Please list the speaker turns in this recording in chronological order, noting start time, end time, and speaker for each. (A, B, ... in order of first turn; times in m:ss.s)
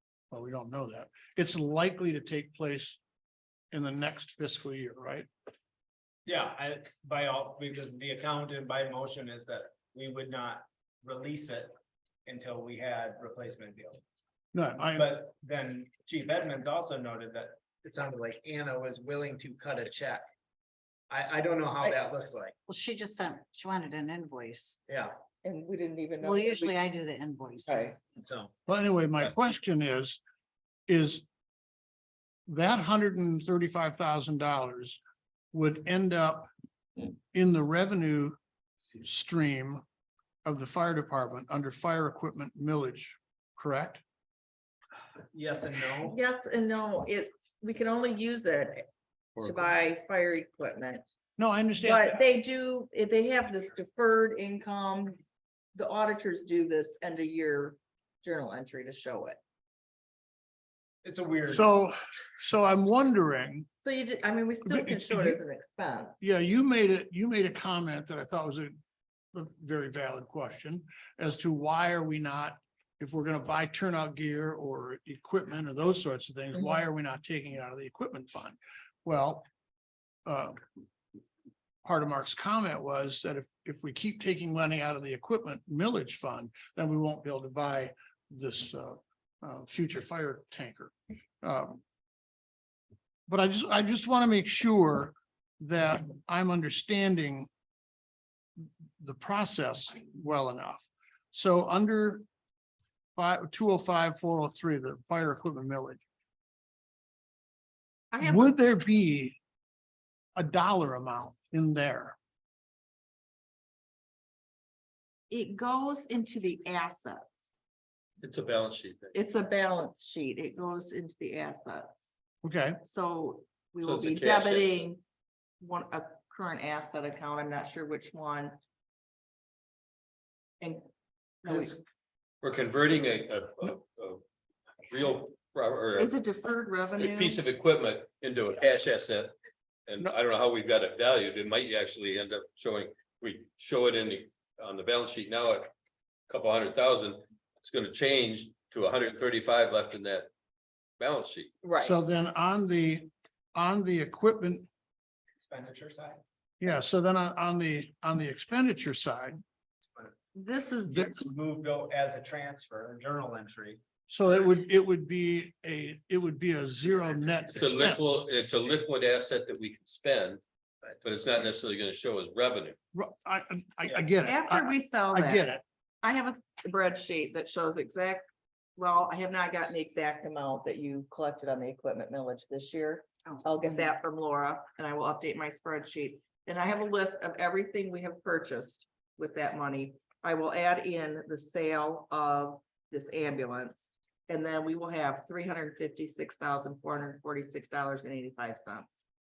0:00.3-0:03.0 A
0:03.7-0:05.3 A
0:06.2-0:11.7 B
0:12.2-0:14.0 B
0:14.5-0:15.1 A
0:14.9-0:20.3 B
0:21.1-0:22.6 B
0:22.7-0:24.8 C
0:24.9-0:25.1 B
0:25.4-0:26.7 D
0:26.2-0:28.0 C
0:27.6-0:27.9 D
0:28.2-0:28.5 B
0:28.7-0:30.2 A
0:30.9-0:31.2 A
0:32.5-0:35.0 A
0:35.5-0:36.5 A
0:37.3-0:38.4 A
0:39.0-0:39.8 A
0:40.4-0:44.0 A
0:45.3-0:46.2 B
0:46.0-0:48.8 D
0:49.4-0:51.0 D
0:51.4-0:52.1 A
0:51.8-0:55.2 D
0:55.7-0:59.4 D
1:01.0-1:01.6 B
1:01.5-1:03.7 A
1:03.8-1:06.2 D
1:04.6-1:05.4 A
1:06.2-1:08.8 A
1:09.3-1:19.4 A
1:20.2-1:20.6 A
1:21.8-1:31.8 A
1:33.3-1:37.5 A
1:39.0-1:42.2 A
1:43.2-1:46.0 A
1:48.1-1:48.5 D
1:48.2-1:49.4 A
1:50.4-1:52.2 A
1:55.3-1:57.4 D
1:58.2-1:59.2 E
1:59.1-2:02.0 D
2:02.4-2:02.8 A
2:02.8-2:05.0 D
2:03.8-2:04.9 E
2:05.6-2:08.6 D
2:10.6-2:10.9 D
2:11.4-2:11.8 D
2:12.4-2:14.2 E
2:14.9-2:16.1 E
2:16.0-2:17.4 D
2:17.0-2:19.3 E
2:19.9-2:25.7 E
2:26.3-2:30.3 E
2:31.0-2:31.5 E
2:31.6-2:32.0 D
2:31.8-2:34.7 A
2:35.4-2:36.2 B
2:36.6-2:39.4 A
2:39.9-2:40.1 B
2:40.3-2:41.2 D
2:41.1-2:43.8 B
2:44.1-2:48.2 A
2:47.6-2:50.4 E
2:51.0-2:52.8 E
2:52.9-2:55.6 A
2:54.2-2:55.5 D
2:56.0-2:58.2 D
2:58.8-3:18.9 D